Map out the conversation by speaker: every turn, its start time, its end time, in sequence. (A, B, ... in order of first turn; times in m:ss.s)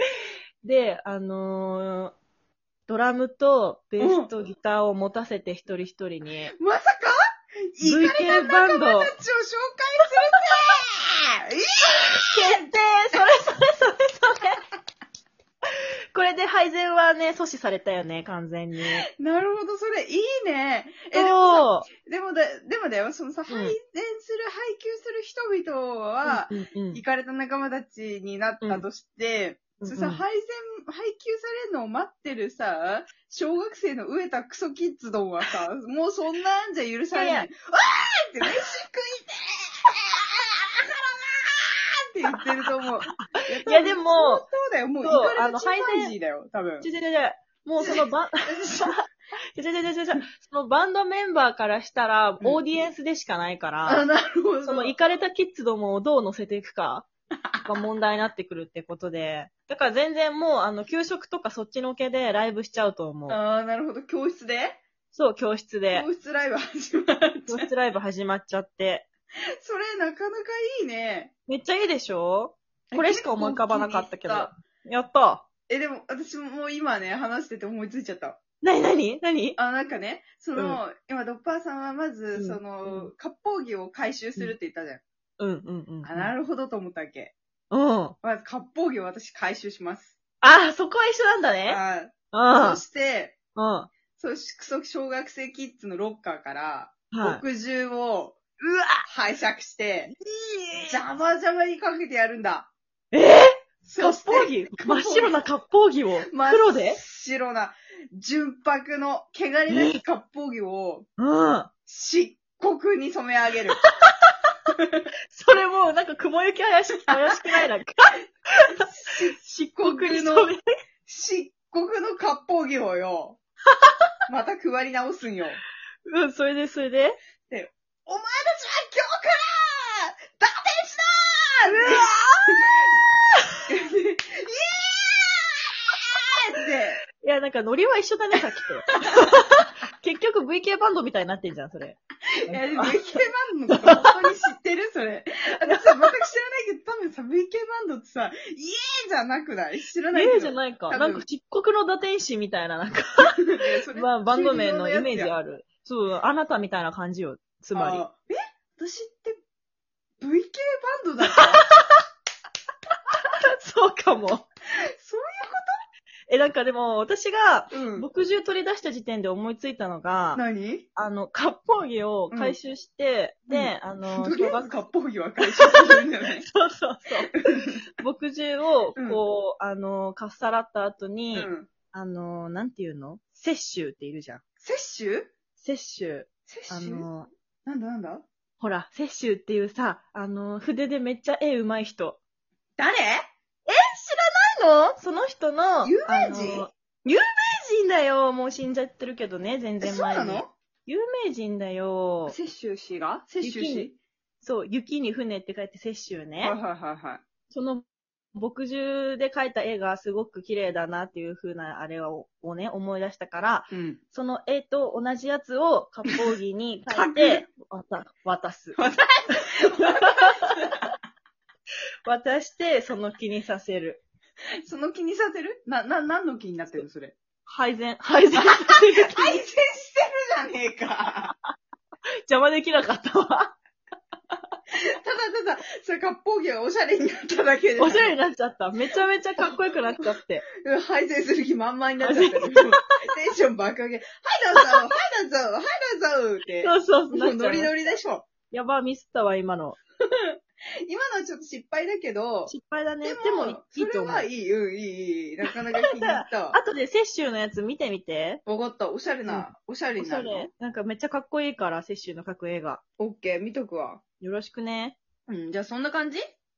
0:00.6-0:02.2 A
0:02.9-0:06.5 A
0:04.0-0:04.3 B
0:06.6-0:07.2 B
0:07.8-0:12.6 B
0:07.8-0:09.1 A
0:12.2-0:14.6 A
0:16.1-0:19.1 A
0:19.2-0:40.2 B
0:21.1-0:21.9 A
0:23.5-0:23.8 A
0:26.3-0:27.0 A
0:29.8-0:30.2 A
0:37.1-0:37.5 A
0:40.8-0:46.9 B
0:43.1-0:44.4 A
0:45.0-0:46.1 A
0:46.8-0:48.9 A
0:47.8-0:49.0 B
0:49.5-0:54.0 A
0:53.8-0:55.0 B
0:54.6-0:57.1 A
0:57.6-1:03.4 A
1:03.3-1:04.8 B
1:05.1-1:06.1 A
1:05.9-1:07.7 B
1:07.5-1:09.1 A
1:09.6-1:11.3 B
1:11.5-1:15.4 A
1:12.9-1:14.5 B
1:15.7-1:18.4 B
1:18.6-1:19.6 A
1:19.6-1:25.0 B
1:22.4-1:23.1 A
1:25.4-1:26.3 A
1:26.0-1:27.3 B
1:27.7-1:28.2 A
1:28.2-1:30.2 B
1:30.4-1:31.8 A
1:31.7-1:33.4 B
1:32.3-1:32.8 A
1:33.6-1:33.9 A
1:34.2-1:38.4 B
1:37.1-1:37.4 A
1:38.6-1:39.0 A
1:39.0-1:40.1 B
1:40.2-1:41.0 A
1:40.9-1:42.7 B
1:43.1-1:47.0 A
1:43.8-1:45.4 B
1:46.3-1:51.1 B
1:49.7-1:50.0 A
1:51.2-1:51.7 A
1:51.9-1:53.8 B
1:53.8-1:54.1 A
1:55.3-1:58.9 A
1:58.8-2:00.5 B
1:59.4-2:00.6 A
2:01.1-2:03.4 B
2:03.7-2:04.1 A
2:04.3-2:05.6 B
2:06.1-2:07.2 A
2:07.5-2:12.7 B
2:11.7-2:12.5 A
2:13.7-2:17.0 B
2:17.2-2:23.2 A
2:22.5-2:31.2 B
2:23.7-2:24.2 A
2:25.7-2:25.9 A
2:30.1-2:38.0 A
2:33.6-2:35.3 B
2:37.7-2:39.4 B
2:40.2-2:41.6 B
2:41.3-2:42.0 A
2:43.6-2:44.5 A
2:45.0-2:45.8 B
2:46.3-2:50.4 A
2:47.7-2:48.1 B
2:50.4-2:50.9 B
2:51.0-2:54.9 A
2:52.3-2:52.6 B
2:53.5-2:56.4 B
2:55.4-3:04.4 A
2:57.4-2:57.8 B
2:59.0-2:59.2 B
3:01.3-3:01.7 B
3:04.6-3:05.3 B
3:05.6-3:07.3 A
3:06.5-3:07.1 B
3:07.6-3:08.2 B
3:08.6-3:12.2 A
3:12.8-3:13.2 B
3:13.7-3:22.4 A
3:15.8-3:16.7 B
3:19.8-3:20.5 B
3:22.3-3:24.0 B
3:23.4-3:23.9 A
3:24.4-3:26.6 A
3:26.4-3:27.2 B
3:27.5-3:38.8 A
3:33.7-3:34.0 B
3:36.9-3:37.5 B
3:38.8-3:40.9 B
3:39.8-3:40.5 A
3:42.1-3:44.0 A
3:44.7-3:47.2 B
3:47.5-3:49.4 A
3:48.4-3:51.3 B
3:52.3-3:53.6 A
3:54.7-3:58.2 B
3:57.8-4:00.4 A
4:00.6-4:08.3 B
4:02.0-4:02.8 A
4:06.6-4:07.9 A
4:08.5-4:09.8 A
4:10.1-4:16.6 B
4:12.5-4:14.3 A
4:16.0-4:18.4 A
4:18.5-4:20.5 B
4:19.3-4:22.8 A
4:23.0-4:24.0 B
4:24.2-4:25.0 A
4:25.3-4:26.3 B